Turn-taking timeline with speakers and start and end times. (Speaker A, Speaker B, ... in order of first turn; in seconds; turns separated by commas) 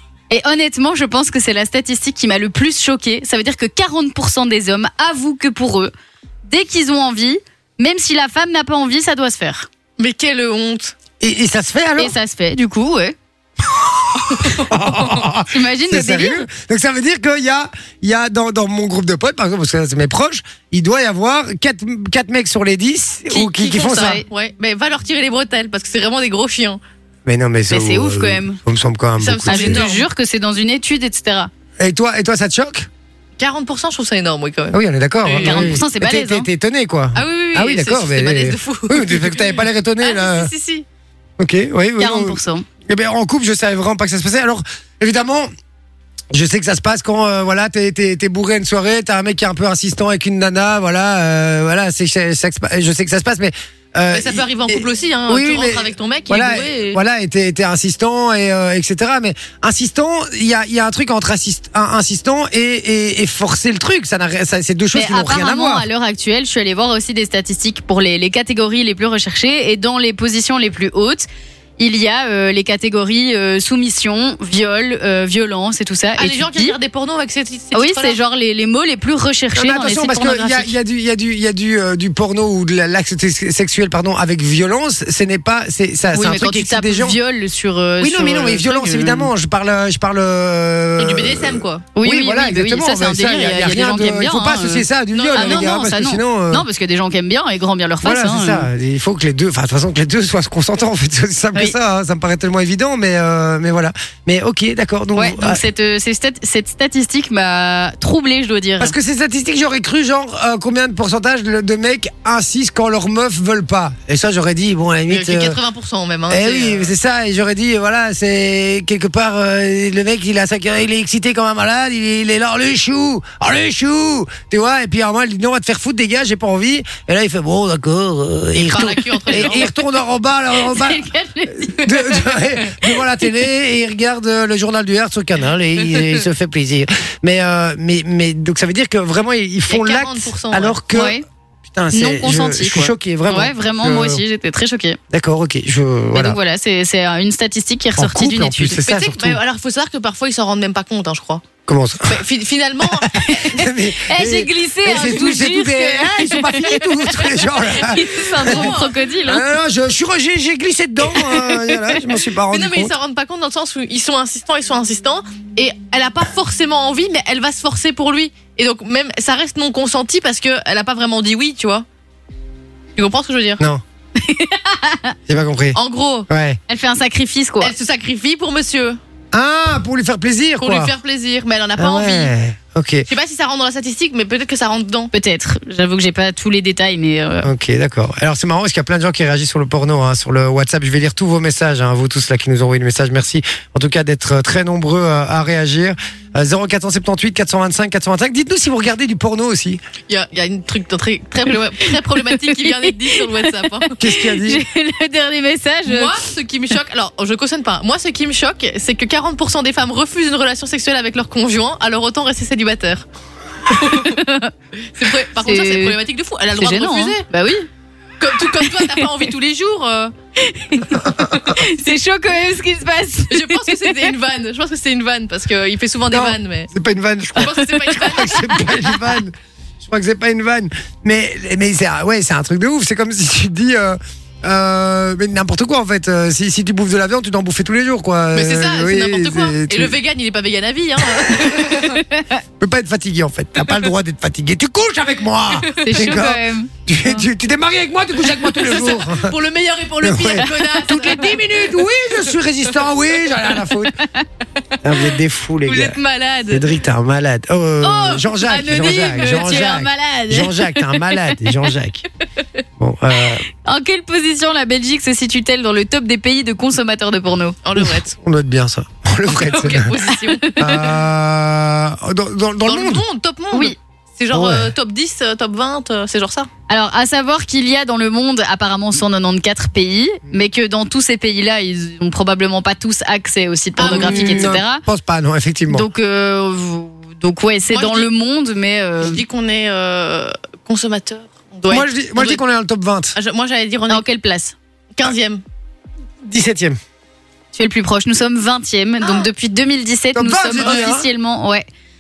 Speaker A: 0.3-5.9, Speaker A: 6.5-9.7, Speaker B: 10.0-10.9, Speaker C: 11.2-12.2, Speaker A: 12.0-13.2, Speaker C: 13.7-24.2, Speaker B: 14.4-14.7, Speaker A: 15.5-16.4, Speaker B: 23.3-26.8, Speaker A: 23.8-24.2, Speaker C: 27.3-29.9, Speaker A: 27.7-28.6, Speaker B: 29.2-30.1, Speaker A: 29.4-31.5, Speaker C: 31.8-32.9, Speaker B: 33.4-35.8, Speaker C: 34.7-40.5, Speaker A: 35.4-36.5, Speaker B: 37.1-40.9, Speaker C: 41.4-45.5, Speaker A: 42.0-42.7, Speaker C: 46.3-65.9, Speaker B: 54.1-57.0, Speaker A: 64.9-71.3, Speaker A: 71.8-76.8, Speaker B: 76.2-78.2, Speaker A: 77.7-80.8, Speaker C: 79.5-87.2, Speaker A: 86.1-89.3, Speaker C: 88.0-96.7, Speaker B: 91.0-91.9, Speaker A: 92.0-98.7, Speaker B: 95.1-95.8, Speaker C: 98.0-105.6, Speaker A: 105.2-109.0, Speaker C: 108.8-115.6, Speaker B: 115.1-116.9, Speaker C: 116.3-131.0, Speaker B: 128.6-129.7, Speaker A: 129.3-129.7, Speaker A: 130.6-132.3, Speaker C: 131.6-144.2, Speaker B: 139.7-140.8, Speaker A: 140.9-141.2, Speaker A: 141.9-145.0, Speaker C: 145.1-146.4, Speaker A: 146.1-148.8, Speaker C: 148.0-149.4, Speaker B: 148.9-151.4, Speaker C: 151.7-152.2, Speaker B: 152.1-153.7, Speaker C: 152.8-158.7, Speaker A: 154.0-157.2, Speaker A: 157.8-159.4, Speaker B: 158.0-159.0, Speaker C: 159.2-162.9, Speaker B: 162.5-171.8, Speaker B: 173.0-173.6, Speaker A: 174.2-175.2, Speaker C: 175.3-176.6, Speaker B: 175.8-176.3, Speaker A: 176.7-177.7, Speaker B: 177.6-179.0, Speaker C: 179.3-180.9, Speaker B: 180.6-182.3, Speaker C: 181.8-183.1, Speaker B: 183.1-185.1, Speaker A: 185.1-187.5, Speaker C: 187.4-199.8, Speaker B: 200.1-204.0, Speaker A: 202.1-206.1, Speaker C: 204.0-204.6, Speaker B: 205.9-213.1, Speaker B: 213.7-214.2, Speaker A: 213.7-214.5, Speaker B: 214.9-217.2, Speaker A: 215.4-216.0, Speaker A: 216.6-217.7, Speaker B: 218.2-220.1, Speaker A: 218.6-219.0, Speaker A: 220.4-224.1, Speaker B: 223.3-226.7, Speaker C: 226.1-239.9, Speaker B: 227.3-228.8, Speaker B: 238.3-242.0, Speaker C: 241.2-241.8, Speaker A: 241.9-242.4, Speaker C: 242.6-249.3, Speaker B: 245.6-245.9, Speaker A: 245.8-246.7, Speaker B: 248.3-252.2, Speaker C: 250.0-253.9, Speaker C: 254.8-256.0, Speaker B: 255.7-256.7, Speaker C: 256.5-262.1, Speaker A: 257.8-261.4, Speaker C: 262.8-263.4, Speaker A: 263.6-267.6, Speaker B: 267.6-268.1, Speaker C: 267.8-269.9, Speaker B: 269.3-270.9, Speaker A: 270.1-270.8, Speaker C: 270.6-273.0, Speaker B: 272.7-276.5, Speaker C: 274.3-274.7, Speaker A: 276.7-284.9, Speaker B: 283.8-284.6, Speaker C: 283.8-285.9, Speaker A: 285.7-289.2, Speaker B: 287.7-288.1, Speaker B: 289.0-292.4, Speaker C: 291.7-293.2, Speaker B: 293.2-294.0, Speaker A: 293.9-294.5, Speaker B: 295.0-295.4, Speaker C: 296.2-296.8, Speaker A: 297.5-301.7, Speaker B: 299.0-299.3, Speaker C: 300.1-301.1